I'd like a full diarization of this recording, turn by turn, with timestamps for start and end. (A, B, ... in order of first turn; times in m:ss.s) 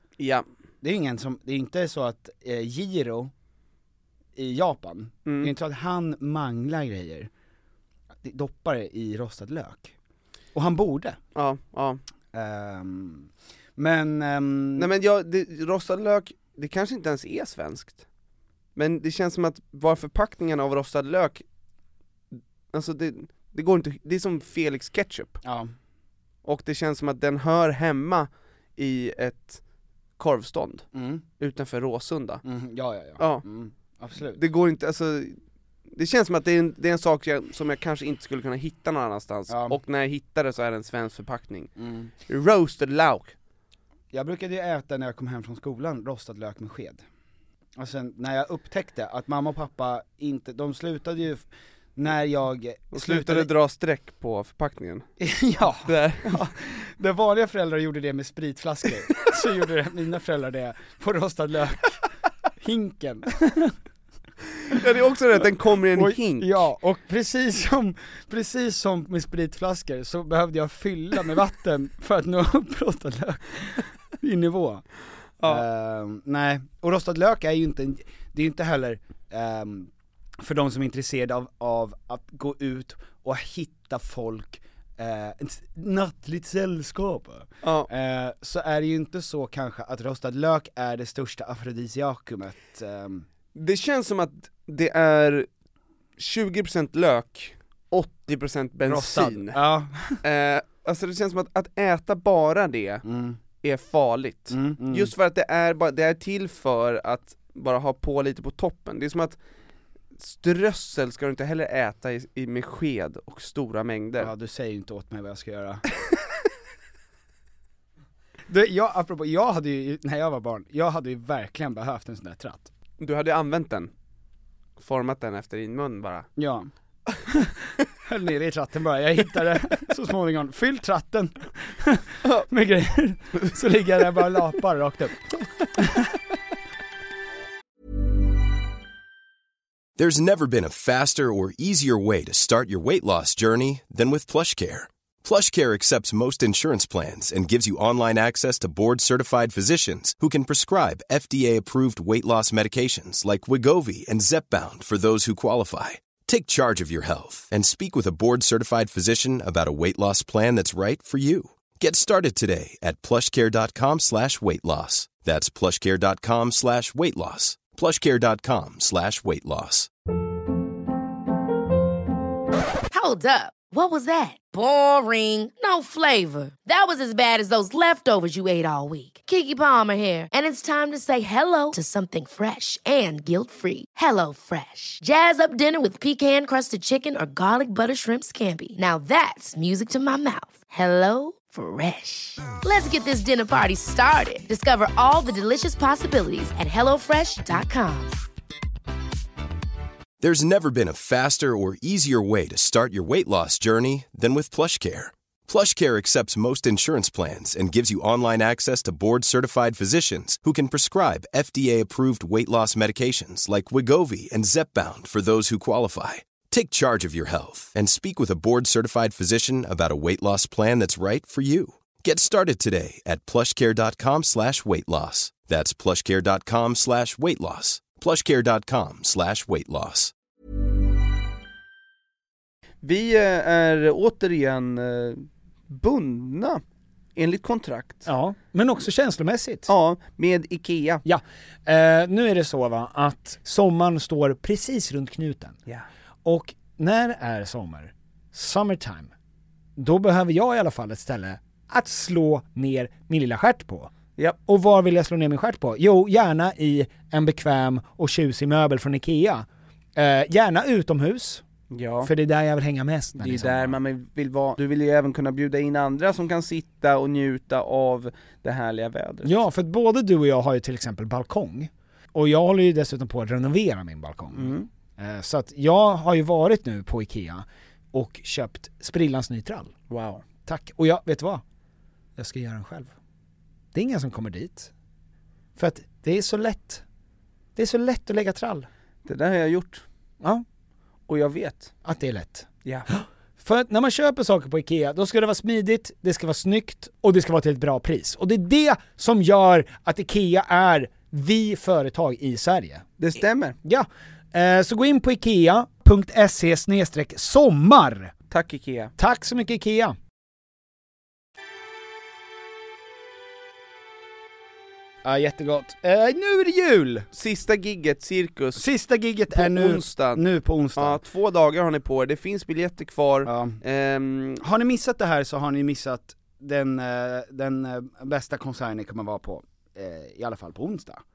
0:00.2-0:00.4 A
0:00.8-0:03.3 B
0:04.3-0:07.3 B
0:05.2-0:05.5 A
0:08.2-0:09.9 B
0:10.5-0:11.2 B
0:11.3-0:12.0 A
0:12.3-0:14.9 B
0:14.8-0:18.0 A
0:18.8-0:21.4 A
0:22.7-0:25.4 A
0:25.4-0:25.7 B
0:26.4-0:29.6 A
0:30.2-0:30.9 A
0:30.9-0:31.2 B
0:31.4-0:32.4 A
0:32.4-0:34.4 B
0:33.2-0:33.4 A
0:34.3-0:35.4 A
0:35.9-0:41.7 A
0:39.5-0:39.8 B
0:41.8-0:42.1 B
0:42.2-0:43.3 A
0:44.1-0:47.0 B
0:47.8-0:53.5 B
0:52.9-0:55.1 A
0:55.2-1:02.0 B
0:55.8-0:56.4 A
1:02.6-1:03.8 B
1:04.7-1:06.7 A
1:05.9-1:14.8 B
1:15.4-1:33.2 B
1:27.6-1:27.9 A
1:33.5-1:35.5 A
1:36.2-1:39.6 A
1:38.8-1:40.2 B
1:40.2-1:43.0 A
1:43.0-1:43.4 B
1:43.6-1:49.4 A
1:44.5-1:45.1 B
1:50.2-1:54.3 A
1:54.2-1:55.8 B
1:58.5-2:02.7 B
2:03.0-2:03.9 A
2:04.8-2:06.3 A
2:06.4-2:06.7 B
2:07.2-2:15.2 B
2:15.8-2:16.0 B
2:20.0-2:49.9 C
2:52.9-3:18.2 D
3:20.2-3:50.1 C
3:52.8-3:56.6 A
3:57.2-3:58.1 A
3:58.0-3:59.7 E
3:59.7-4:01.0 A
4:01.0-4:05.6 E
4:06.2-4:09.1 E
4:09.8-4:19.4 E
4:20.0-4:21.4 E
4:21.7-4:22.1 A
4:22.0-4:23.8 E
4:23.2-4:29.3 A
4:29.2-4:39.8 E
4:34.3-4:34.7 A
4:39.9-4:40.2 A
4:40.4-4:41.4 E
4:42.2-4:42.9 E
4:43.7-4:44.7 E
4:45.6-4:46.8 E
4:47.6-4:48.6 E
4:49.0-4:49.8 A
4:51.1-4:51.7 A
4:51.8-5:02.9 E
5:03.0-5:03.6 A
5:03.6-5:08.1 E
5:08.3-5:08.9 A
5:09.0-5:09.9 E
5:15.0-5:17.1 B
5:17.1-5:18.7 A
5:18.5-5:21.0 B
5:19.3-5:20.2 A
5:20.8-5:24.4 A
5:23.2-5:23.6 B
5:24.4-5:31.0 B